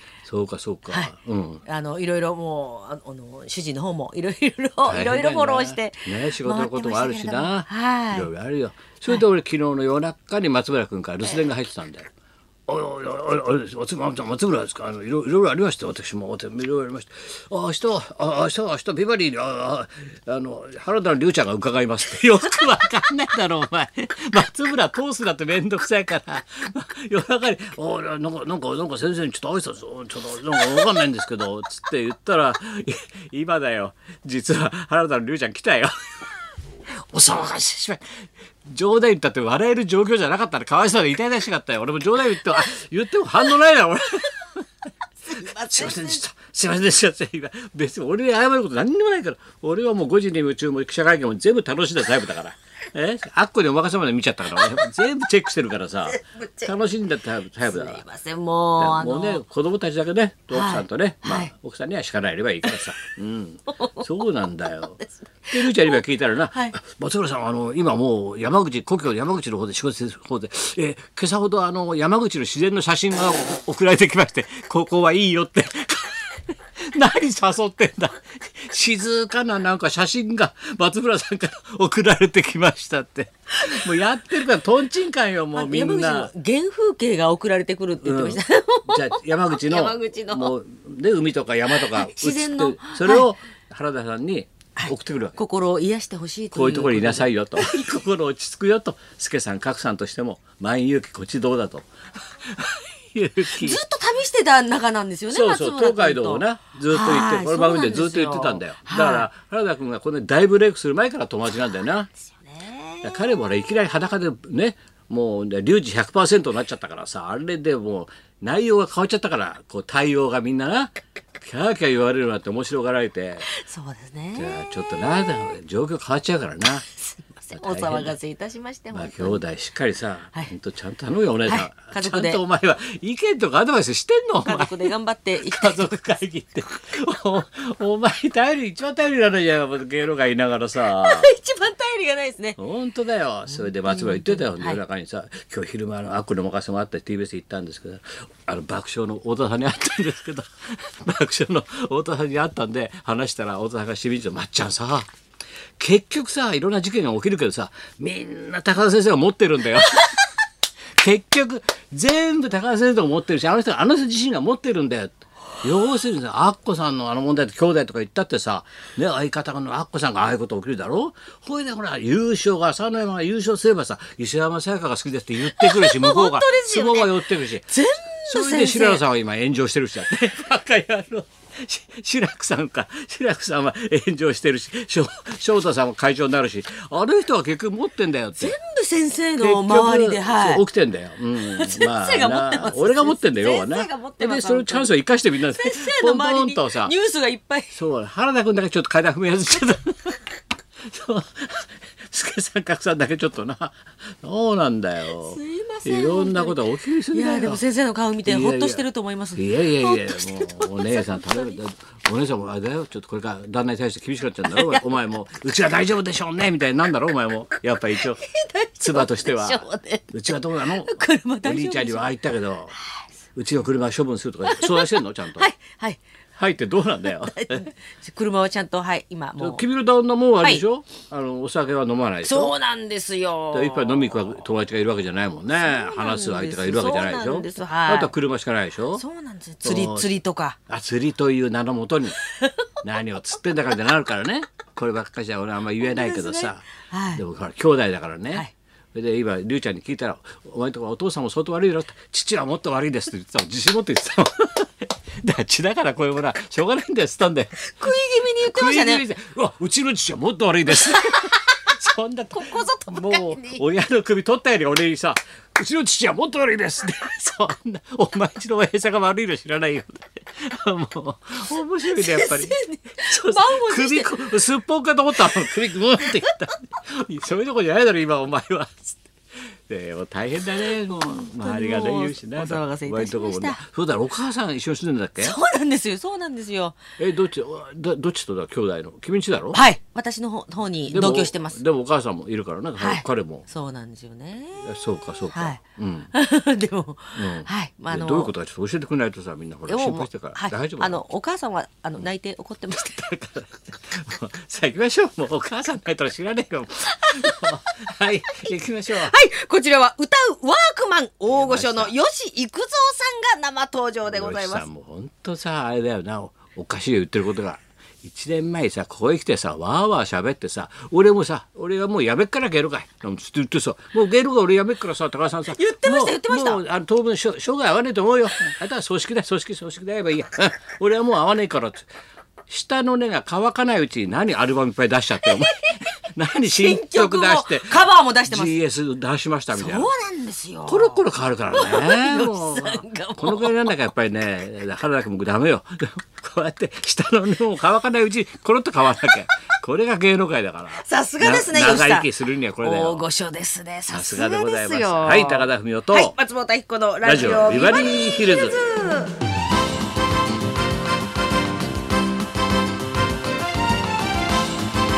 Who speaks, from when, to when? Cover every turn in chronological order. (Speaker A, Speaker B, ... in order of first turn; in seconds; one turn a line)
Speaker A: 0.2-1.6
Speaker B: 1.7-8.3
Speaker A: 4.8-12.1
Speaker A: 12.7-35.9
Speaker A: 37.0-44.6
Speaker B: 45.3-46.2
Speaker A: 45.3-58.0
Speaker B: 57.7-59.4
Speaker A: 58.8-86.3
Speaker B: 60.5-61.5
Speaker B: 65.5-66.0
Speaker B: 85.5-90.5
Speaker A: 88.0-95.4
Speaker B: 91.7-93.3
Speaker B: 94.8-97.9
Speaker A: 96.5-101.9
Speaker A: 102.4-103.8
Speaker B: 103.5-109.3
Speaker A: 105.3-112.1
Speaker B: 112.4-113.1
Speaker A: 113.0-123.5
Speaker B: 123.5-124.6
Speaker A: 124.4-126.9
Speaker B: 127.1-129.4
Speaker A: 127.5-128.1
Speaker A: 128.9-134.9
Speaker B: 131.4-132.4
Speaker B: 134.4-135.8
Speaker A: 135.4-141.3
Speaker B: 141.0-142.6
Speaker A: 142.6-155.1
Speaker B: 143.8-144.8
Speaker A: 155.8-160.2
Speaker A: 161.0-177.7
Speaker B: 175.5-177.1
Speaker B: 177.7-179.0
Speaker A: 178.3-188.6
Speaker B: 188.4-190.6
Speaker A: 189.4-196.9
Speaker B: 191.5-194.9
Speaker B: 195.5-197.8
Speaker A: 197.7-200.2
Speaker A: 200.8-207.6
Speaker B: 205.2-211.6
Speaker A: 208.2-218.2
Speaker B: 214.5-214.8
Speaker B: 218.2-222.1
Speaker A: 218.8-222.8
Speaker A: 223.3-225.5
Speaker B: 224.5-226.0
Speaker A: 226.4-227.7
Speaker B: 227.2-229.6
Speaker A: 229.4-232.5
Speaker B: 232.2-234.2
Speaker A: 233.5-239.0
Speaker B: 235.6-238.1
Speaker B: 238.9-240.6
Speaker A: 239.6-242.2
Speaker A: 242.8-285.4
Speaker B: 245.8-247.2
Speaker B: 257.6-259.0
Speaker B: 260.8-261.7
Speaker B: 262.3-263.6
Speaker B: 271.8-274.2
Speaker B: 276.0-276.3
Speaker B: 280.7-283.6
Speaker B: 285.2-286.8
Speaker A: 287.0-289.6
Speaker B: 289.5-291.6
Speaker A: 290.9-293.4
Speaker B: 292.8-294.7
Speaker A: 294.6-296.1
Speaker B: 295.3-295.6
Speaker B: 296.1-298.3
Speaker A: 297.1-301.0
Speaker B: 299.7-303.4
Speaker A: 303.3-309.1
Speaker B: 308.9-314.6
Speaker A: 311.3-311.9
Speaker A: 314.1-331.9
Speaker B: 325.5-326.6
Speaker A: 332.5-339.9
Speaker B: 335.6-338.6
Speaker B: 339.5-341.0
Speaker A: 340.7-353.0
Speaker B: 341.5-343.7
Speaker B: 350.8-352.1
Speaker B: 352.6-359.2
Speaker A: 353.9-356.1
Speaker A: 357.0-358.6